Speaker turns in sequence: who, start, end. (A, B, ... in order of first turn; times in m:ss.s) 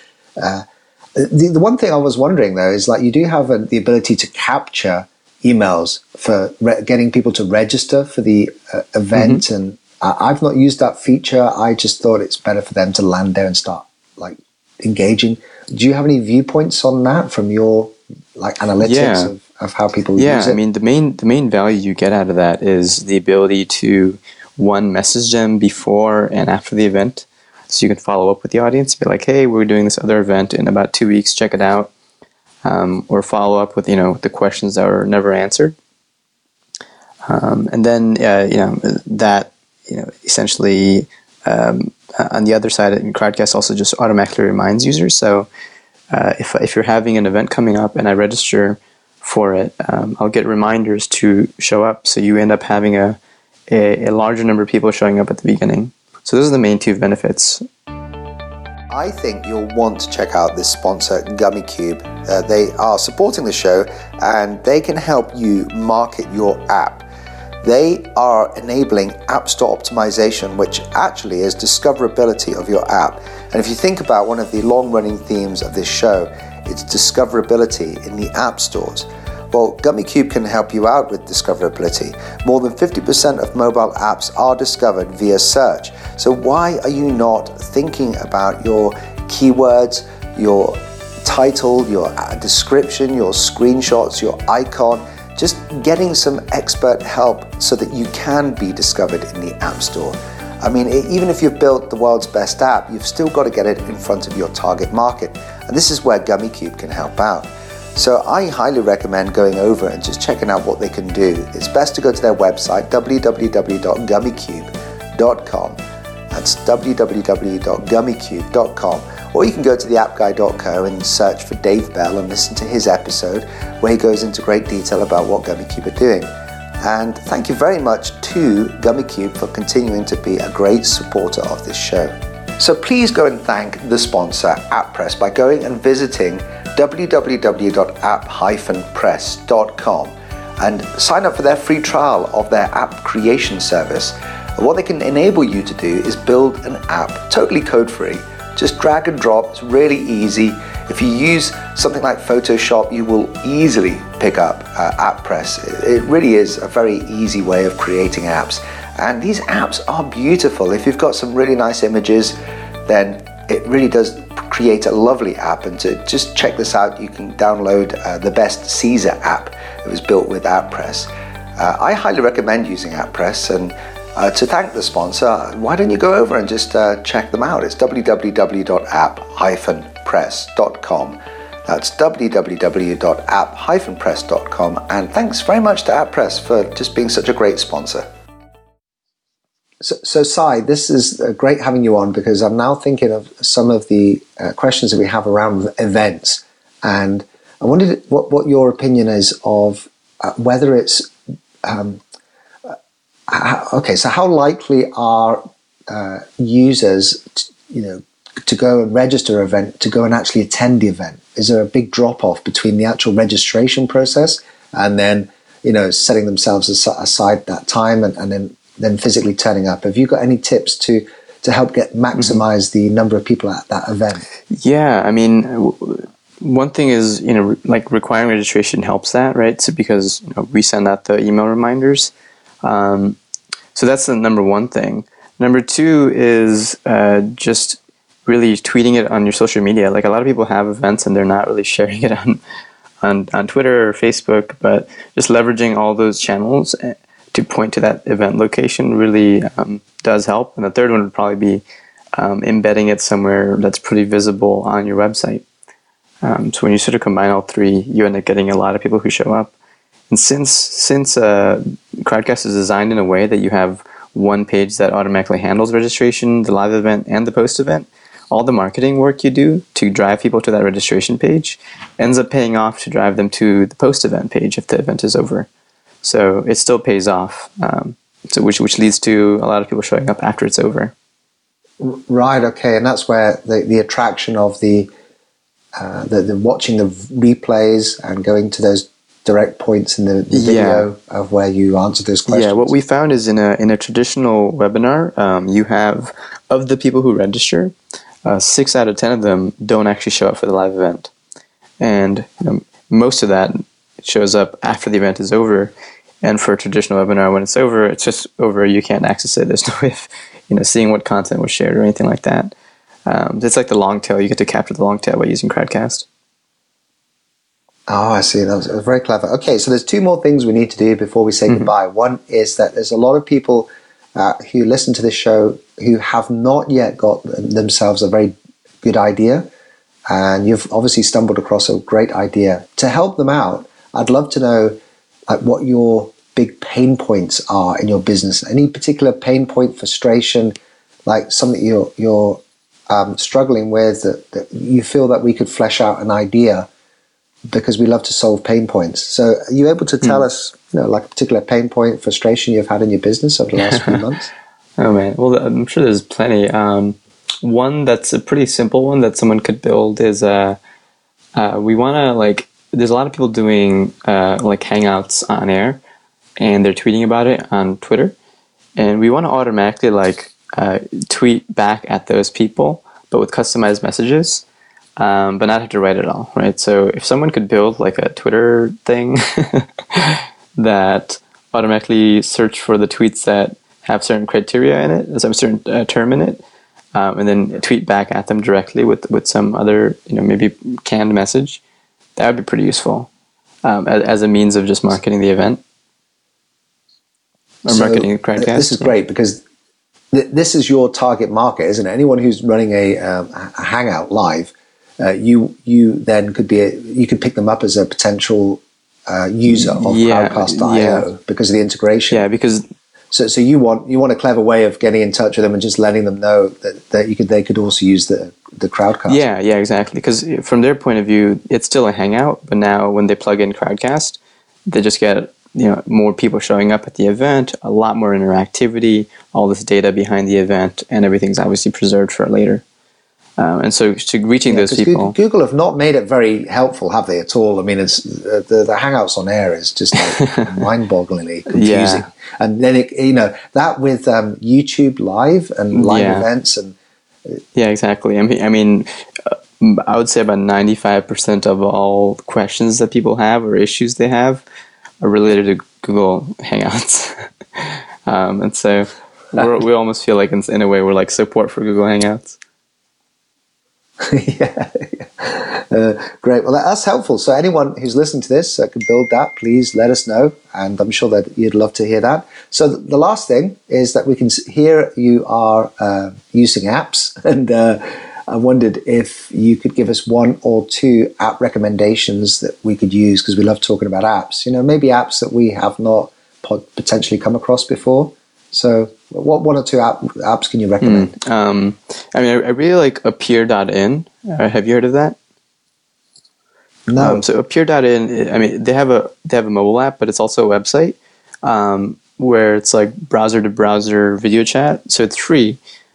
0:00.4-0:20.6 A
0:09.1-0:09.4 B
0:18.8-0:19.3 B
0:20.2-0:31.9 B
0:32.6-0:35.8 B
0:37.2-0:45.5 B
0:46.1-0:53.2 B
0:53.7-0:57.6 B
0:58.9-1:07.1 A
1:07.6-1:55.8 A
1:56.3-2:06.3 A
2:06.8-2:42.4 A
2:42.9-3:08.0 A
3:09.8-3:21.1 A
3:21.6-3:22.0 A
3:23.3-3:44.2 A
3:42.1-3:42.4 B
3:44.5-3:52.1 B
3:52.6-3:53.2 B
3:53.8-4:02.4 B
4:03.0-4:11.6 B
4:12.2-4:15.4 B
4:16.2-4:19.5 B
4:20.1-4:35.5 B
4:36.0-4:40.9 B
4:41.8-4:44.9 A
4:45.8-4:52.7 A
4:50.3-4:50.9 B
4:52.3-5:01.1 B
5:01.8-5:12.5 B
5:13.1-5:16.0 B
5:17.9-5:29.5 A
5:30.1-5:46.7 A
5:47.5-5:54.3 A
5:53.6-5:54.0 B
5:54.8-6:00.6 B
6:01.4-6:05.8 B
6:06.4-6:08.1 B
6:08.8-6:14.4 B
6:15.0-6:26.4 B
6:27.0-6:31.6 B
6:32.2-6:33.1 B
6:33.6-6:35.6 B
6:37.7-6:38.9 B
6:37.7-6:39.4 A
6:40.1-6:52.2 A
6:49.5-6:51.1 B
6:52.1-6:52.6 B
6:53.1-6:59.2 A
6:59.1-7:12.6 B
7:13.4-7:15.2 B
7:14.5-7:26.8 A
7:21.5-7:22.0 B
7:25.7-7:26.3 B
7:27.5-7:34.4 B
7:35.0-7:42.3 B
7:44.0-8:11.1 A
8:10.8-8:15.2 B
8:16.9-8:17.2 A
8:17.0-8:25.6 B